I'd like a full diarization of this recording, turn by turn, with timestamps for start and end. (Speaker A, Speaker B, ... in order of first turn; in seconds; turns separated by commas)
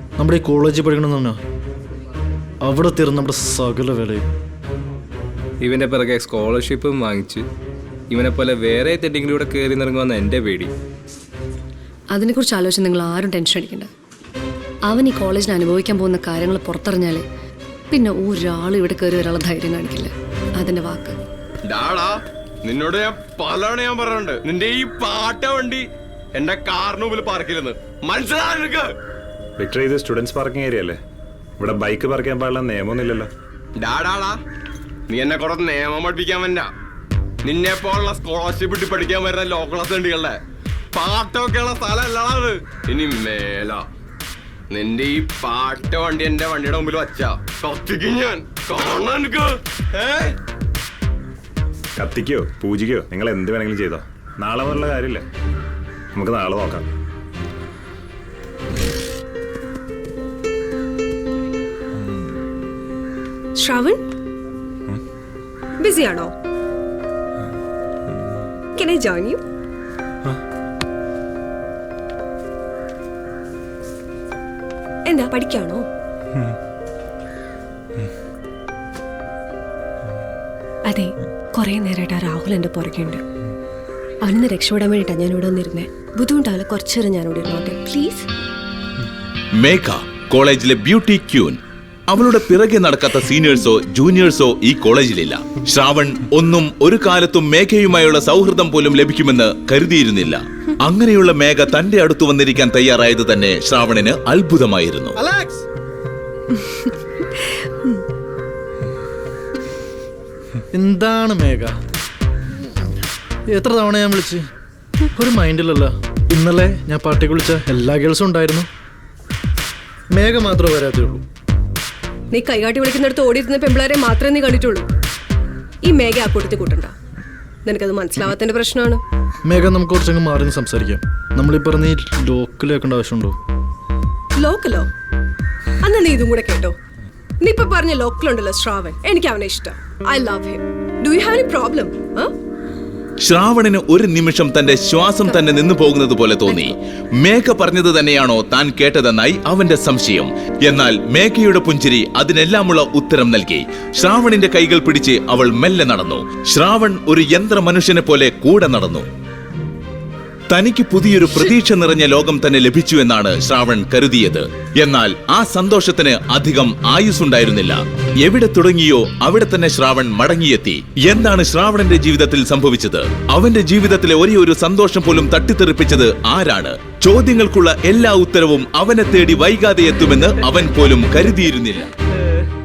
Speaker A: 0.2-1.4, Speaker A: 2.6-4.3, Speaker B: 5.6-7.5, Speaker B: 8.1-10.7, Speaker C: 12.1-13.9, Speaker C: 14.9-17.2, Speaker C: 17.9-21.2, Speaker D: 21.7-28.9, Speaker E: 29.6-31.0, Speaker E: 31.6-33.3, Speaker D: 33.8-34.4, Speaker D: 35.1-36.7, Speaker D: 37.4-40.4, Speaker D: 41.0-43.9, Speaker D: 44.7-50.4, Speaker E: 52.0-55.2, Speaker E: 56.2-56.9, Speaker F: 63.6-64.0, Speaker F: 65.8-66.3, Speaker F: 68.8-69.4, Speaker F: 75.1-75.9, Speaker F: 80.9-83.2, Speaker F: 84.2-88.3, Speaker G: 89.6-105.2, Speaker A: 105.2-105.7, Speaker A: 110.7-111.7, Speaker A: 113.5-114.4, Speaker A: 115.2-118.7, Speaker A: 120.1-121.2, Speaker F: 122.3-124.9, Speaker F: 125.8-127.0, Speaker F: 127.7-129.0, Speaker A: 129.5-133.4, Speaker F: 134.4-134.9, Speaker F: 135.8-136.8, Speaker F: 137.4-142.3, Speaker G: 143.2-159.1, Speaker G: 160.5-181.9